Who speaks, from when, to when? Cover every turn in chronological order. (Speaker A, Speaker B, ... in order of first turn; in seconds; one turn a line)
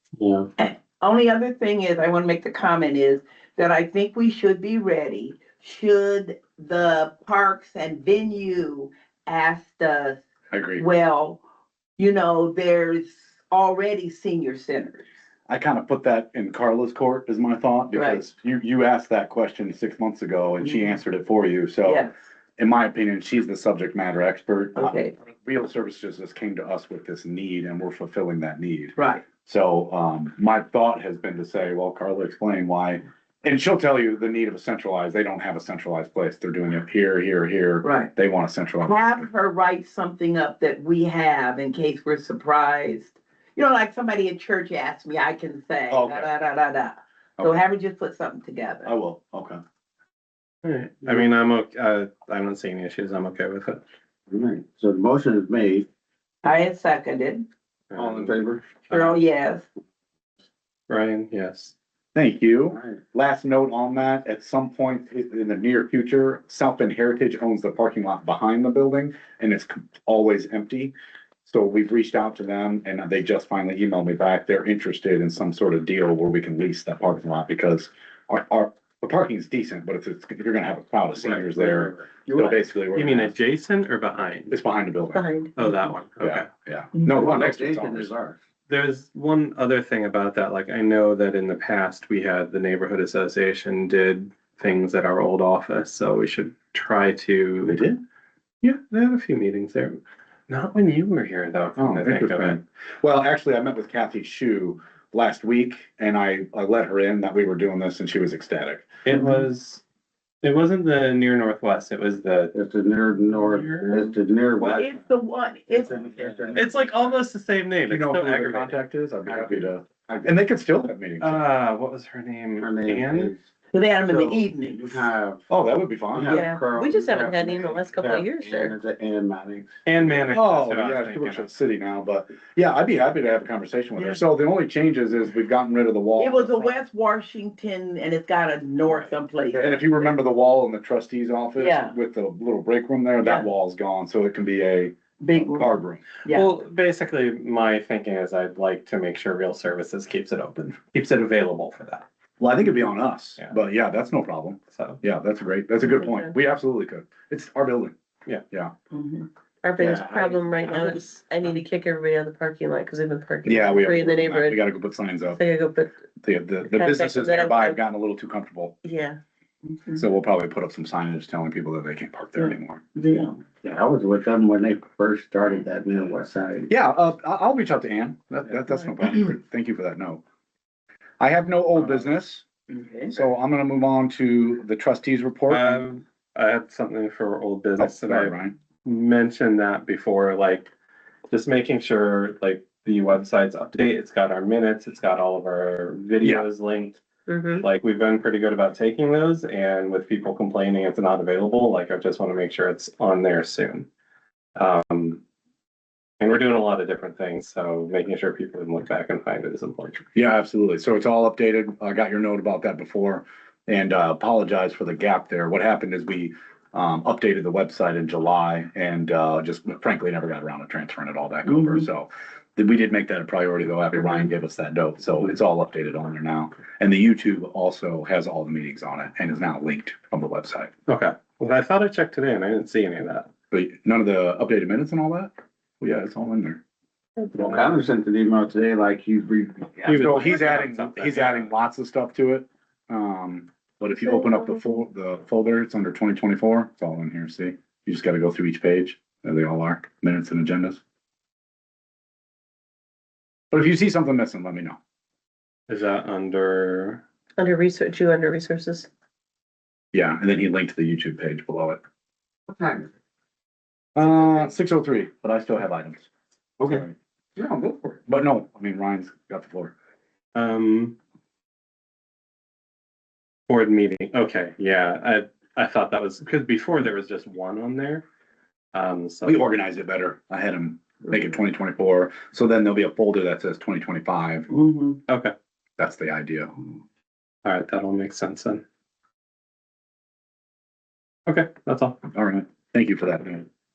Speaker A: 0.2-0.5
Speaker B: 0.6-10.2
Speaker C: 10.5-10.8
Speaker B: 10.8-11.4
Speaker B: 12.0-15.1
Speaker C: 15.5-39.3
Speaker B: 17.9-18.2
Speaker B: 21.8-22.1
Speaker B: 24.8-25.1
Speaker B: 28.9-29.2
Speaker B: 37.8-38.1
Speaker B: 38.8-48.9
Speaker C: 45.9-46.3
Speaker C: 48.8-49.6
Speaker A: 50.6-53.8
Speaker D: 54.3-55.9
Speaker B: 56.4-57.4
Speaker A: 57.9-58.4
Speaker D: 57.9-58.6
Speaker A: 58.9-59.2
Speaker B: 58.9-59.6
Speaker A: 60.9-61.7
Speaker C: 62.1-70.9
Speaker C: 71.5-83.3
Speaker D: 81.3-82.6
Speaker A: 82.9-84.5
Speaker C: 84.5-85.2
Speaker E: 85.1-85.8
Speaker A: 85.5-86.5
Speaker C: 86.2-88.1
Speaker D: 87.1-88.4
Speaker A: 88.7-97.9
Speaker C: 97.6-98.0
Speaker A: 98.6-102.6
Speaker C: 101.8-108.8
Speaker A: 109.0-109.8
Speaker A: 110.4-112.5
Speaker D: 112.5-115.0
Speaker A: 113.2-114.1
Speaker B: 114.6-116.4
Speaker D: 115.7-117.1
Speaker A: 116.5-118.8
Speaker C: 117.9-121.4
Speaker D: 119.2-120.3
Speaker A: 121.2-123.3
Speaker D: 122.6-123.5
Speaker B: 123.7-125.1
Speaker D: 124.0-125.5
Speaker C: 125.5-126.4
Speaker D: 126.1-129.7
Speaker E: 126.3-128.7
Speaker A: 129.8-131.5
Speaker C: 130.3-136.8
Speaker B: 136.2-140.1
Speaker C: 139.5-146.0
Speaker B: 141.6-141.9
Speaker B: 143.2-143.5
Speaker B: 145.2-146.5
Speaker A: 146.3-152.1
Speaker C: 152.4-157.9
Speaker A: 154.7-155.0
Speaker E: 156.0-156.3
Speaker B: 158.9-159.2
Speaker E: 159.6-164.6
Speaker D: 159.8-160.6
Speaker C: 163.4-165.4
Speaker E: 165.3-165.9
Speaker C: 166.2-168.7
Speaker E: 166.7-167.8
Speaker E: 168.8-169.2
Speaker B: 169.7-170.0
Speaker C: 169.9-172.8
Speaker B: 172.9-173.4
Speaker D: 173.6-176.7
Speaker C: 176.7-180.2
Speaker C: 181.2-182.4
Speaker B: 182.7-183.1
Speaker C: 183.1-185.8
Speaker A: 185.5-190.7
Speaker C: 187.8-188.5
Speaker A: 191.3-197.0
Speaker E: 197.3-197.7
Speaker A: 197.6-203.9
Speaker A: 204.6-205.2
Speaker A: 206.2-210.0
Speaker C: 210.1-230.7
Speaker B: 221.5-221.8
Speaker A: 230.9-233.3
Speaker C: 233.5-236.6
Speaker D: 237.3-240.0
Speaker A: 239.8-241.5
Speaker C: 239.9-250.8
Speaker C: 253.5-254.8
Speaker A: 255.7-257.0
Speaker E: 257.4-258.9
Speaker C: 259.9-261.8
Speaker D: 262.5-262.9
Speaker C: 263.9-266.1
Speaker D: 266.6-266.9
Speaker C: 266.6-266.9
Speaker D: 267.4-268.0
Speaker C: 268.0-269.7
Speaker A: 270.3-270.9
Speaker A: 273.5-278.0
Speaker A: 278.7-279.5
Speaker C: 279.2-284.5
Speaker B: 284.5-285.0
Speaker A: 285.1-285.3
Speaker C: 285.8-286.6
Speaker A: 287.4-288.6
Speaker A: 291.3-292.0
Speaker C: 292.1-293.5